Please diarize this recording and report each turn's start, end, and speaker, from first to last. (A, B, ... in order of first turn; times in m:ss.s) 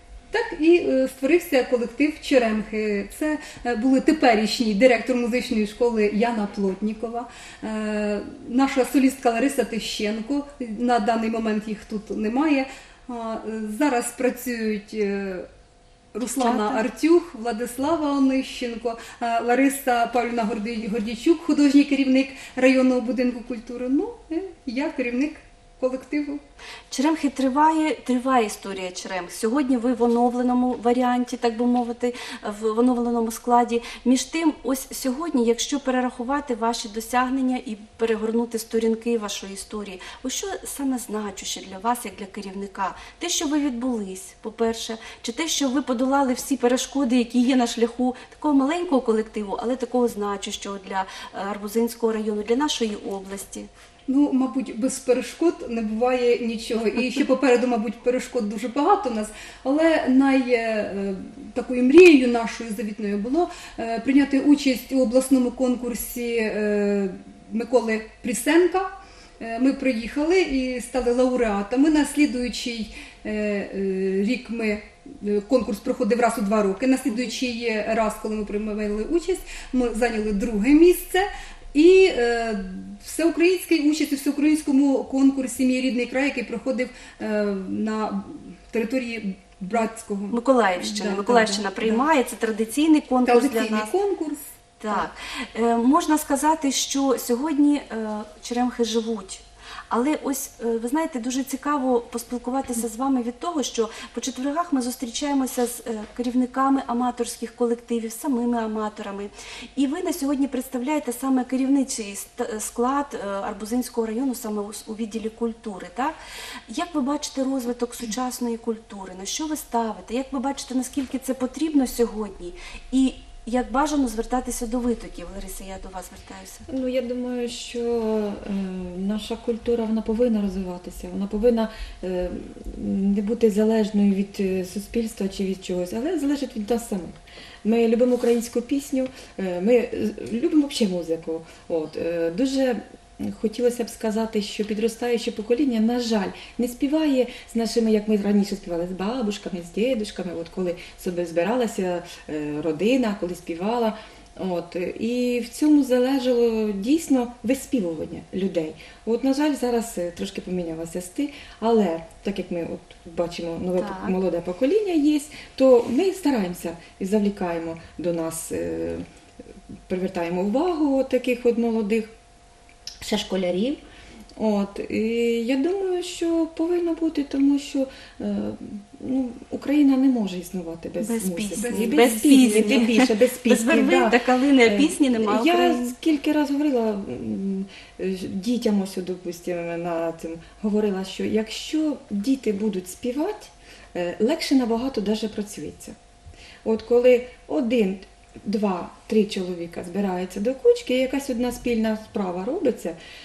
0:00.3-0:15.5 A
0:16.1-0:26.4 A
0:16.4-0:16.8 B
0:26.9-0:53.7 B
0:54.1-1:32.1 A
1:30.3-1:33.9 B
1:33.2-1:35.0 A
1:34.8-1:56.2 B
1:56.7-2:06.7 B
2:06.7-2:49.0 C
2:43.8-2:44.2 B
2:49.9-2:52.1 C
2:53.0-2:53.8 C
2:54.4-3:16.0 C
3:01.0-3:05.9 B
3:01.6-3:02.9 A
3:16.6-3:23.0 C